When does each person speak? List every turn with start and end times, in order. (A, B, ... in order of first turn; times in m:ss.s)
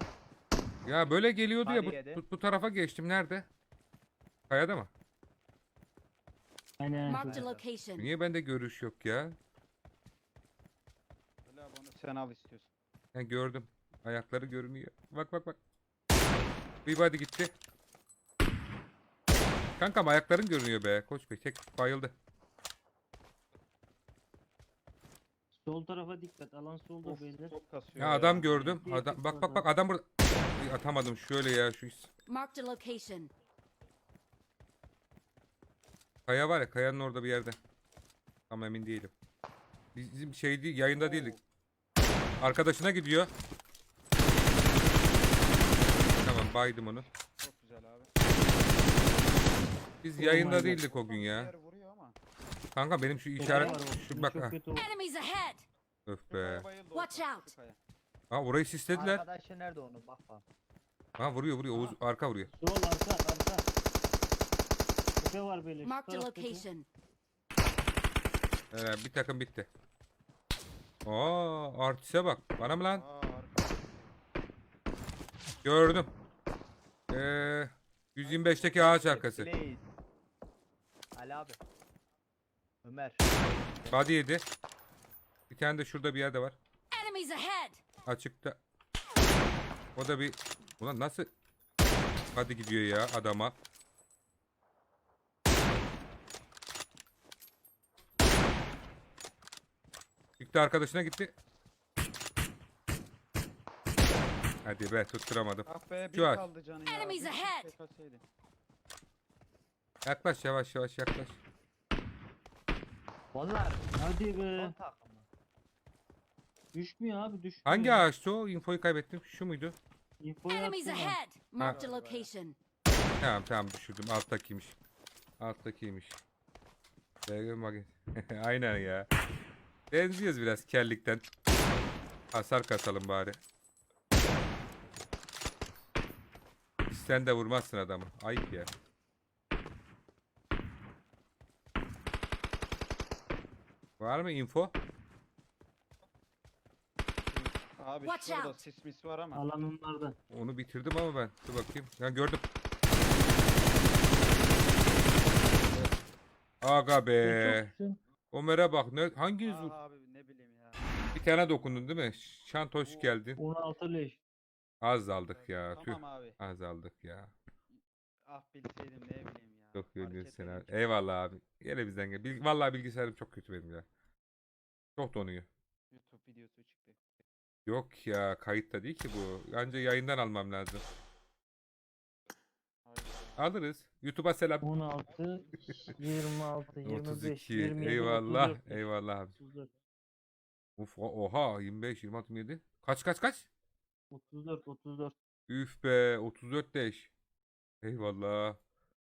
0:00.9-0:03.5 A
0:01.6-0:02.2 B
0:04.5-0:04.9 A
0:06.8-0:07.4 C
0:07.0-0:08.1 D
0:07.1-0:07.6 B
0:08.0-0:09.4 A
0:11.5-0:12.7 E
0:13.2-0:15.6 A
0:16.9-0:17.6 A
0:19.8-0:22.2 A
0:25.5-0:27.6 C
0:27.0-0:28.9 E
0:28.0-0:32.1 A
0:28.1-0:29.7 C
0:32.3-0:33.3 D
0:36.3-0:37.6 A
0:38.5-0:39.1 A
0:40.0-0:41.4 A
0:41.0-0:41.4 E
0:42.4-0:43.3 A
0:46.1-0:47.1 A
0:47.4-0:48.1 E
0:50.0-0:51.5 A
0:50.2-0:50.9 C
0:50.8-0:52.2 E
0:52.8-0:54.6 A
0:53.4-0:54.9 C
0:53.4-0:53.8 D
0:54.8-0:55.7 D
0:56.1-0:56.7 A
0:56.3-0:57.8 E
0:56.9-0:57.5 D
0:58.3-0:59.2 A
0:58.9-1:00.4 B
1:01.2-1:02.5 A
1:02.5-1:03.6 C
1:05.2-1:06.7 C
1:05.8-1:06.9 D
1:08.7-1:09.7 A
1:11.1-1:13.0 A
1:12.6-1:14.1 E
1:15.6-1:16.1 A
1:17.1-1:19.5 A
1:18.2-1:19.1 E
1:18.7-1:20.0 B
1:21.1-1:21.6 B
1:22.8-1:24.1 B
1:23.9-1:24.5 A
1:25.5-1:26.6 A
1:26.9-1:27.8 D
1:28.0-1:28.6 A
1:30.0-1:31.3 A
1:32.4-1:33.6 A
1:40.4-1:41.3 A
1:44.6-1:46.5 A
1:45.6-1:48.2 E
1:46.9-1:47.7 D
1:50.1-1:51.4 A
1:53.3-1:53.9 B
1:54.0-1:54.8 C
1:54.5-1:55.3 B
1:56.7-1:58.1 C
1:57.7-1:59.8 A
2:00.2-2:01.2 C
2:00.5-2:02.6 D
2:01.6-2:02.3 E
2:03.2-2:04.8 A
2:05.4-2:06.2 A
2:07.3-2:09.1 A
2:09.9-2:11.3 A
2:12.3-2:13.4 A
2:16.9-2:18.7 A
2:24.0-2:24.8 A
2:27.3-2:29.4 E
2:28.0-2:28.6 D
2:29.4-2:30.2 C
2:30.3-2:32.4 A
2:36.6-2:37.7 A
2:37.2-2:38.0 C
2:38.3-2:39.8 A
2:39.4-2:42.1 E
2:41.2-2:43.4 A
2:42.8-2:43.2 E
2:43.4-2:44.2 C
2:44.8-2:47.3 A
2:45.3-2:46.4 E
2:48.3-2:50.9 E
2:49.8-2:53.9 A
2:55.0-2:55.5 A
2:55.9-2:57.1 E
2:57.7-3:00.8 A
2:59.6-2:59.9 E
3:02.9-3:03.5 E
3:03.4-3:04.7 A
3:04.6-3:09.7 C
3:06.8-3:09.4 A
3:10.8-3:13.5 A
3:14.1-3:15.2 C
3:15.5-3:17.1 A
3:17.8-3:18.6 A